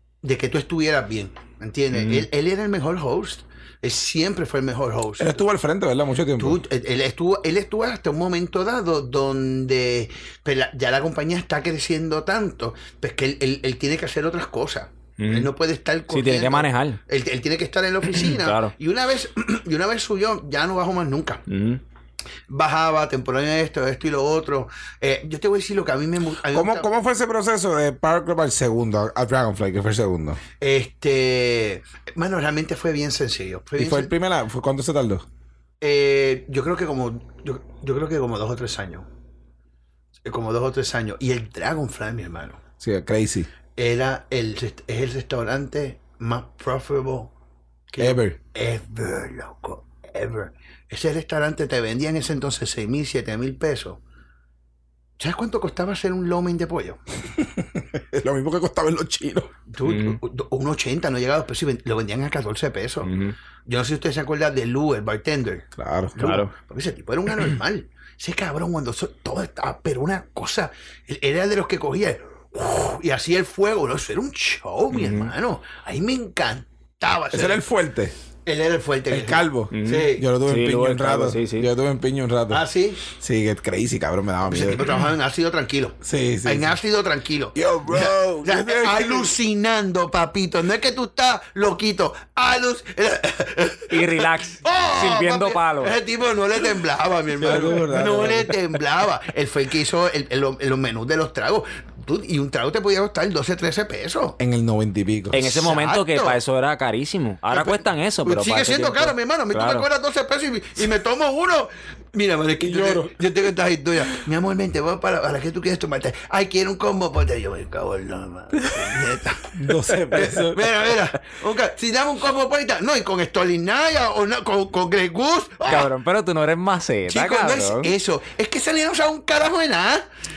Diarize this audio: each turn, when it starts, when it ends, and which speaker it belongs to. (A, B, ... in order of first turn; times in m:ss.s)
0:00.2-0:05.4 A
0:02.0-0:02.2 B
0:05.2-0:06.6 C
0:06.4-0:21.4 A
0:15.2-0:15.5 B
0:16.1-0:17.0 B
0:18.0-0:18.7 B
0:21.5-0:21.8 B
0:22.5-0:26.9 A
0:26.5-0:30.4 C
0:30.6-0:34.1 A
0:33.8-0:35.2 C
0:35.8-0:39.1 A
0:40.2-0:42.6 A
0:42.8-0:43.5 C
0:43.8-0:47.3 A
0:47.9-0:54.0 A
0:48.0-0:48.4 C
0:55.2-0:57.0 A
0:57.3-0:59.5 C
0:59.7-1:03.1 A
0:59.8-1:00.2 B
1:03.0-1:03.3 B
1:03.6-1:17.6 A
1:05.8-1:06.2 C
1:06.2-1:06.5 B
1:14.9-1:15.3 B
1:17.3-1:18.1 C
1:18.4-1:20.3 A
1:19.1-1:24.8 C
1:19.7-1:21.7 B
1:22.5-1:23.0 A
1:24.4-1:44.4 A
1:26.0-1:26.8 C
1:27.5-1:29.3 C
1:33.9-1:36.0 B
1:37.4-1:38.6 C
1:44.4-1:45.4 C
1:45.3-1:46.4 A
1:45.3-1:49.9 B
1:47.5-1:59.5 A
1:52.6-1:53.1 C
1:59.5-2:00.8 C
2:00.1-2:05.9 A
2:05.6-2:07.9 B
2:07.1-2:10.1 A